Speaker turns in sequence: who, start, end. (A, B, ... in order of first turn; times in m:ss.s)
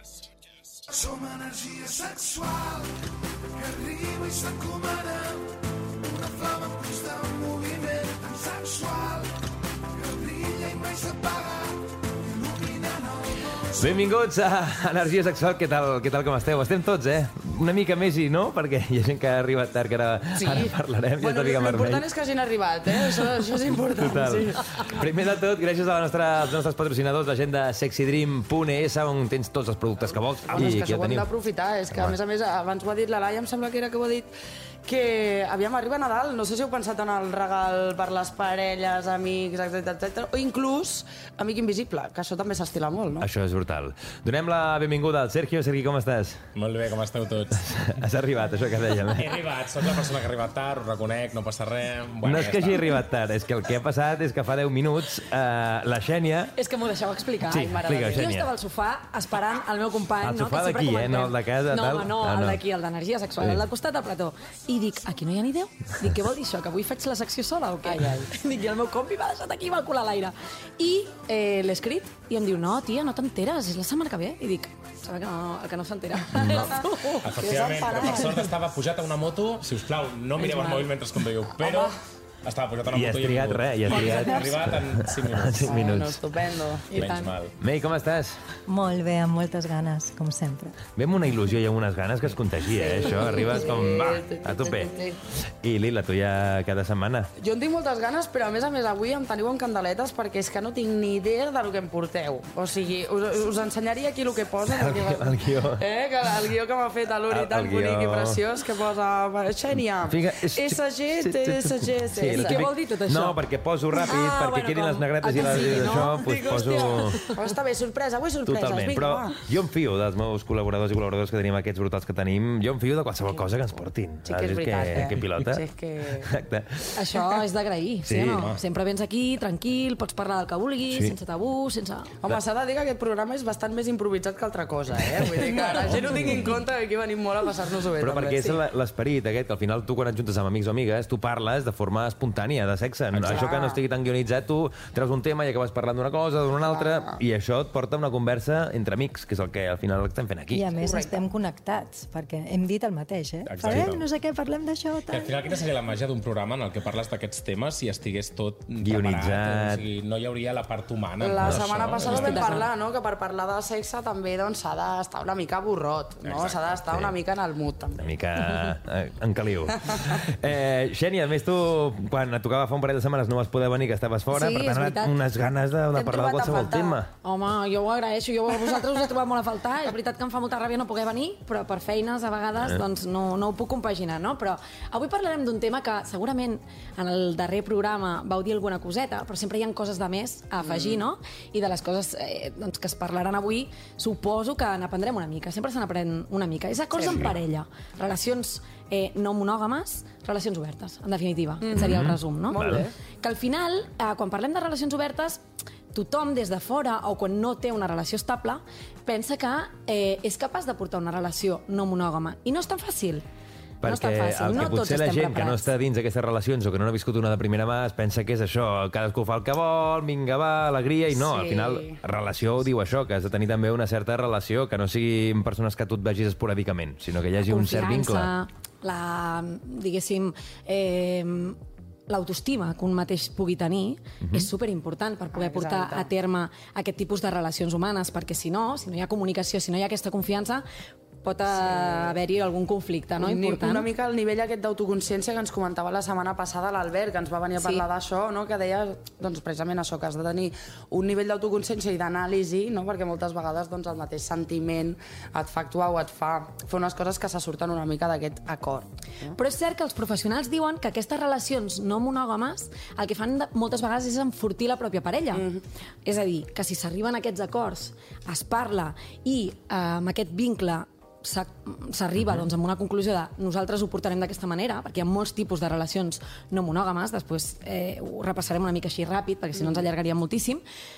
0:01.1-0:02.5 A
0:04.1-0:05.3 A
0:07.1-0:08.5 A
0:13.7-0:22.0 B
0:20.4-0:25.0 C
0:24.0-0:31.3 B
0:30.5-0:34.3 C
0:31.9-0:32.2 B
0:34.8-0:43.3 C
0:43.2-0:46.4 B
0:46.6-0:48.0 D
0:47.6-0:49.4 B
0:49.0-0:52.9 D
0:52.2-0:56.5 B
0:56.6-1:17.4 E
0:57.5-0:58.5 B
0:57.5-0:58.4 C
1:00.2-1:02.6 B
1:07.8-1:08.3 C
1:16.3-1:16.8 B
1:17.2-1:25.9 D
1:17.3-1:18.5 C
1:20.4-1:20.9 E
1:22.9-1:26.2 B
1:25.6-1:26.9 C
1:26.9-1:27.3 E
1:26.9-1:27.6 D
1:27.6-1:28.4 B
1:28.7-1:30.8 F
1:31.0-1:37.3 B
1:32.7-1:35.2 C
1:37.4-1:52.7 C
1:44.7-1:45.8 B
1:47.3-1:48.4 B
1:50.0-1:57.2 B
1:52.3-1:53.4 E
1:53.9-1:57.4 E
1:55.3-1:59.4 C
1:58.4-2:05.6 B
2:04.2-2:06.3 C
2:06.2-2:07.0 B
2:06.9-2:12.1 E
2:08.0-2:08.6 B
2:12.2-2:18.5 C
2:15.1-2:16.6 B
2:18.0-2:30.7 B
2:23.1-2:23.4 D
2:23.2-2:23.8 C
2:26.8-2:27.2 C
2:30.5-2:35.6 F
2:30.8-2:31.2 C
2:33.5-2:34.0 D
2:35.1-2:42.5 D
2:38.8-2:39.8 B
2:41.2-2:48.1 C
2:41.4-2:42.4 B
2:42.1-2:42.7 E
2:46.2-2:46.8 D
2:46.9-2:47.2 B
2:48.0-2:57.1 B
2:49.8-2:50.2 C
2:54.3-2:55.2 E
2:55.9-2:57.0 C
2:57.2-3:25.4 E
3:10.6-3:11.0 C
3:17.0-3:17.3 C
3:17.1-3:17.3 B
3:21.6-3:22.9 C
3:21.8-3:22.8 B
3:25.9-3:33.2 E
3:33.8-3:48.3 B
3:33.8-3:35.7 E
3:41.1-3:42.0 C
3:47.4-3:51.6 E
3:52.1-4:00.6 E
3:54.2-3:54.5 B
3:55.4-3:56.1 C
4:01.2-4:03.9 E
4:01.6-4:02.1 C
4:03.2-4:19.4 C
4:07.6-4:07.8 E
4:19.3-4:25.5 E
4:25.3-4:25.6 C
4:26.0-4:40.6 E